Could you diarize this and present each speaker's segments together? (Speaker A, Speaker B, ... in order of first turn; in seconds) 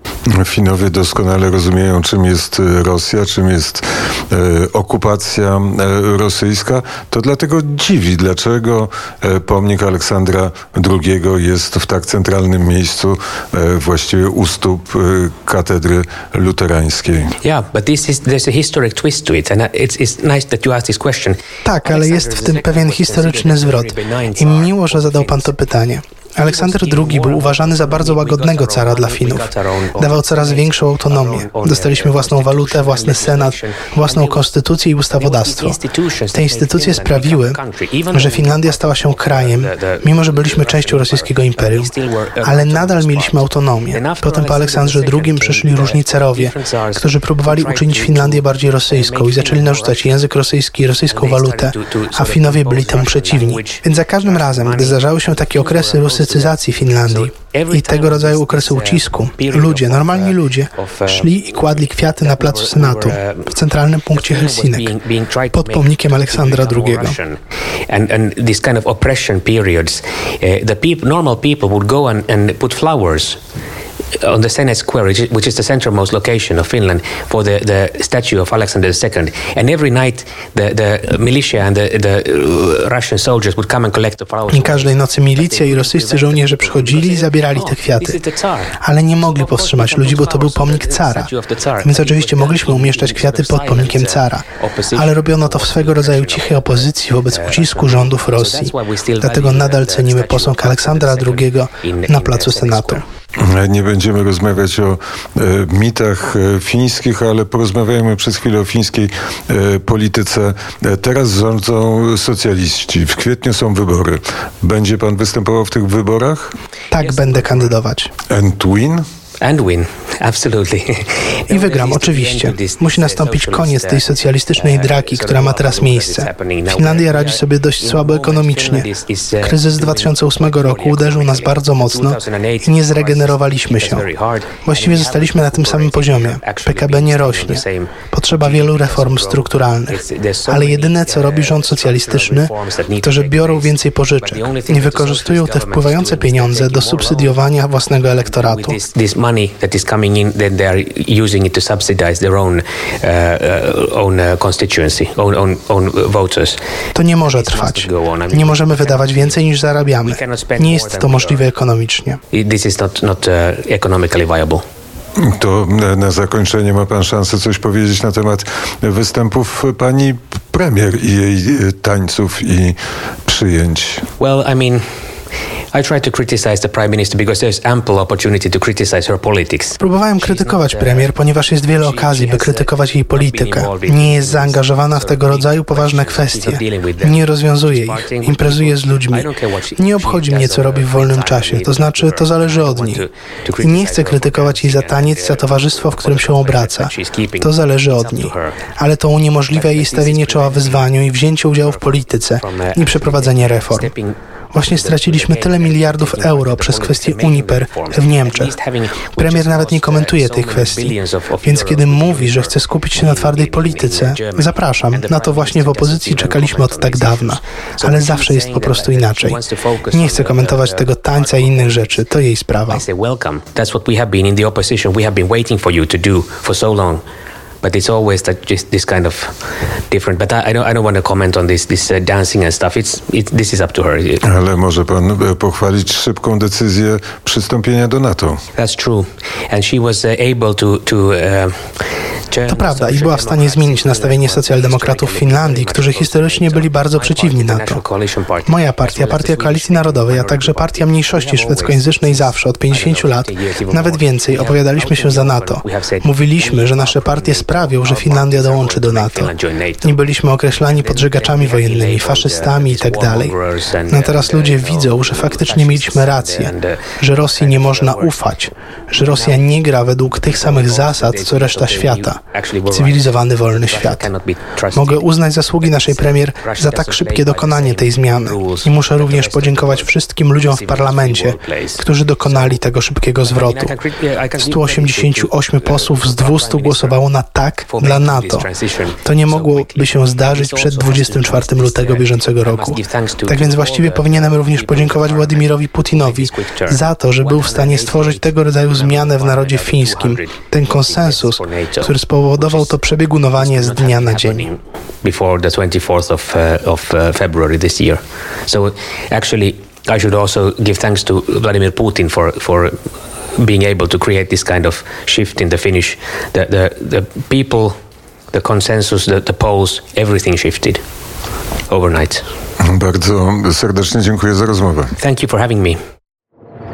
Speaker A: 0.3-17.3, 103.4-116.5, 118.3-119.0, 165.2-174.1, 234.2-238.4, 322.6-324.9
Speaker B: 17.4-25.5, 26.4-34.5, 35.2-50.1, 51.1-63.5, 64.1-73.4, 74.1-103.0, 117.0-117.8, 119.4-147.4, 148.2-156.6, 157.2-159.5, 160.0-161.4, 162.3-164.6, 174.2-175.0, 175.7-181.1, 181.8-198.6, 199.5-200.9, 202.3-222.0, 222.7-227.0, 227.6-234.2, 238.6-260.0, 260.6-268.2, 268.9-269.4, 270.1-275.1, 275.6-282.6, 283.2-287.0, 287.7-302.8, 303.3-312.8, 313.3-317.8, 318.3-320.8, 321.7-322.2, 325.0-325.8
Speaker C: 21.6-35.8, 36.3-37.6, 38.1-41.9, 42.4-64.9, 65.5-67.2, 84.5-88.2, 88.8-103.0, 116.9-118.1, 121.5-134.1, 134.6-148.8, 156.9-162.2, 179.8-193.0, 193.6-203.9, 204.5-208.5, 209.2-219.4, 219.9-222.8, 242.5-247.8, 248.4-259.3, 259.8-263.3, 263.9-272.2, 272.7-274.1, 274.7-283.7, 284.4-288.4, 289.0-304.5